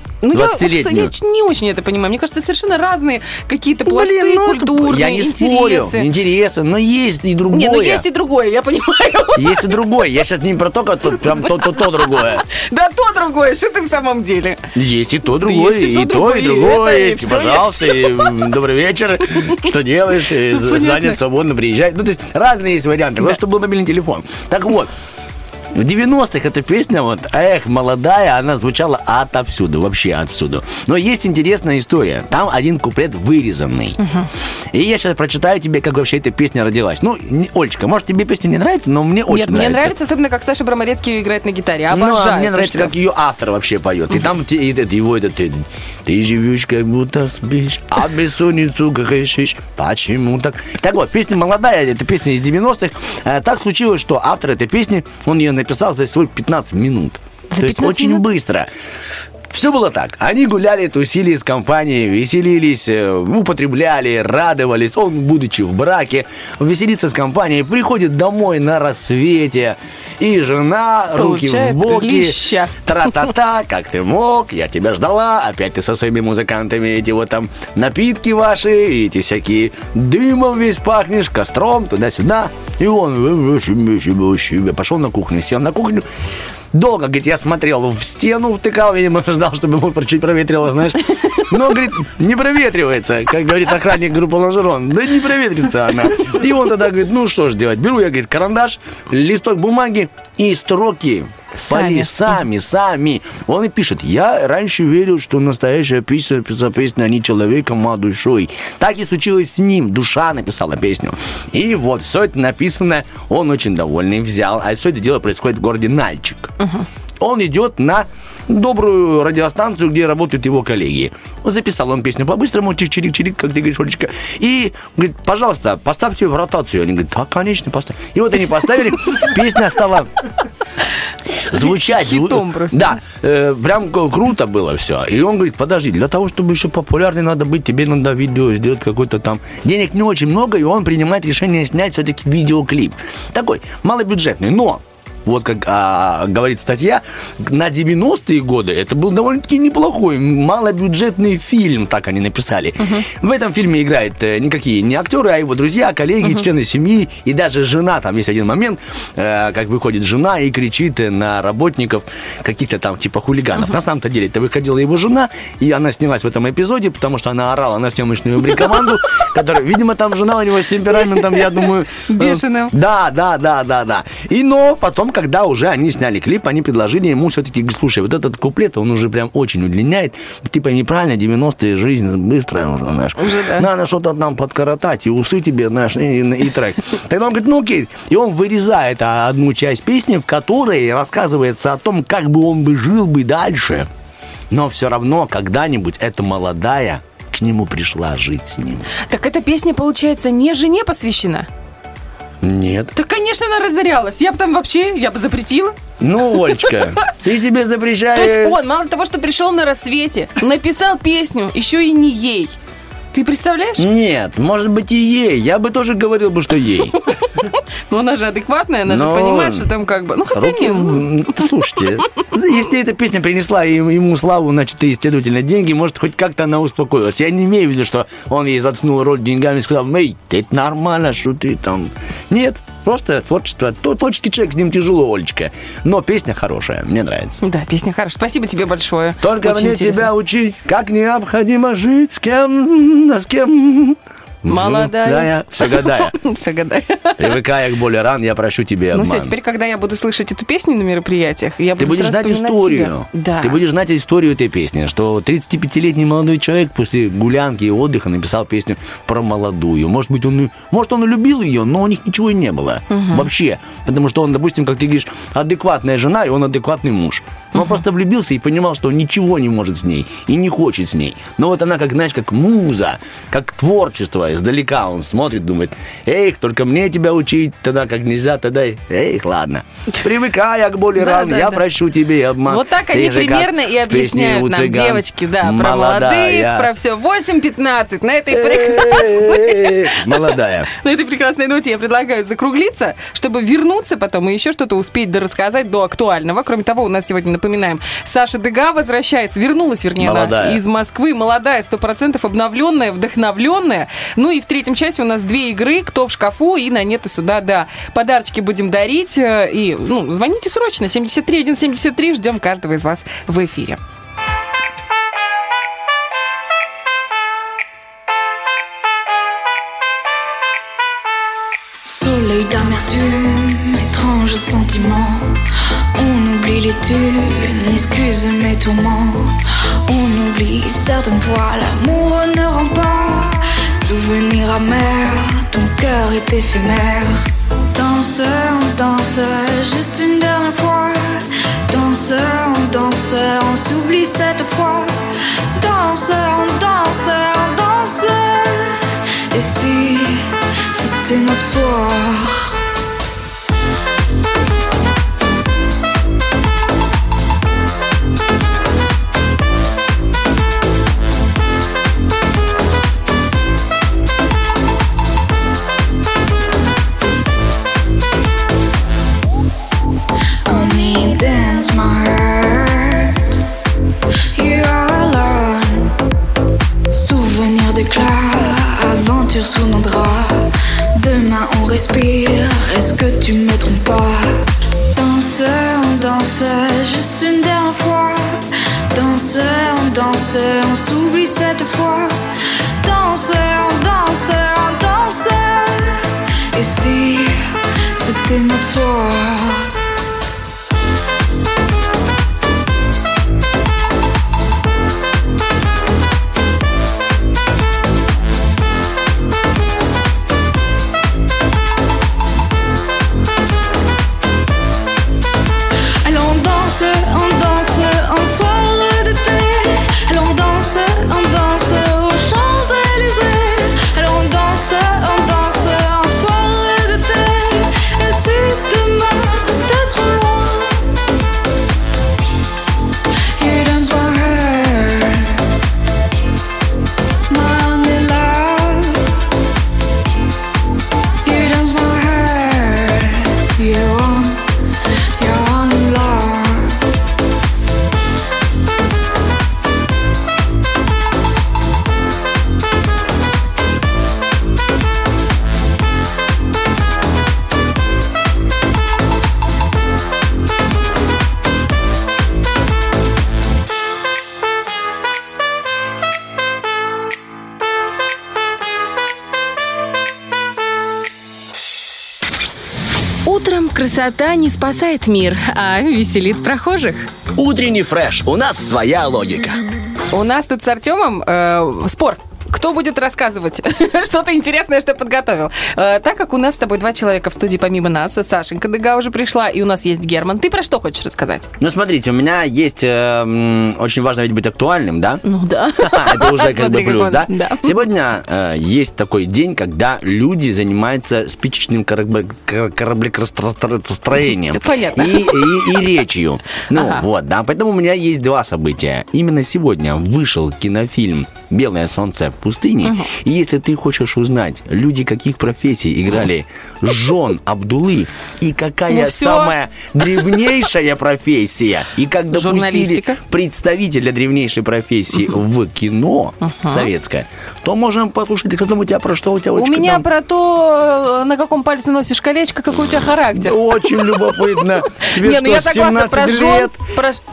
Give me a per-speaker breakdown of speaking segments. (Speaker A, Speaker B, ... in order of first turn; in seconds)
Speaker A: 0.2-6.1, 7.5-9.8, 12.1-14.6, 15.4-18.5, 20.5-21.2, 34.0-34.3, 39.3-42.9, 57.5-58.2, 71.2-72.7, 101.5-102.3, 116.6-116.8, 131.5-133.0, 152.8-153.1, 172.1-172.7, 183.2-183.7, 199.1-201.5, 202.9-205.8, 208.1-212.6, 213.1-213.8, 217.9-221.1, 237.4-240.1, 244.5-247.3, 248.9-253.6, 262.9-263.3, 267.5-267.8, 281.0-281.6, 282.5-290.0, 290.8-313.8, 473.2-477.1, 480.1-491.5, 495.2-497.7, 504.5-505.8, 506.7-507.0, 512.8-513.1, 518.9-519.5, 522.3-523.2, 526.4-526.9, 529.5-537.2
Speaker B: 0.3-1.1, 3.9-8.1, 9.4-12.4, 14.8-24.9, 25.7-34.0, 34.7-40.0, 41.9-58.7, 59.5-86.1, 86.7-116.5, 117.2-130.1, 131.5-193.9, 194.5-198.9, 202.4-202.9, 206.0-208.6, 213.8-217.0, 218.9-219.7, 220.3-237.4, 239.2-246.2, 247.2-249.3, 251.8-286.7, 288.3-290.7, 300.0-300.6, 477.4-479.6, 491.6-495.2, 495.8-530.0, 533.3-536.8
Speaker C: 321.9-325.4, 325.9-352.5, 370.4-373.2, 374.3-375.9, 376.9-392.2, 392.8-399.7, 416.0-430.9, 433.4-435.3, 437.3-439.1, 441.2-444.4, 445.2-446.8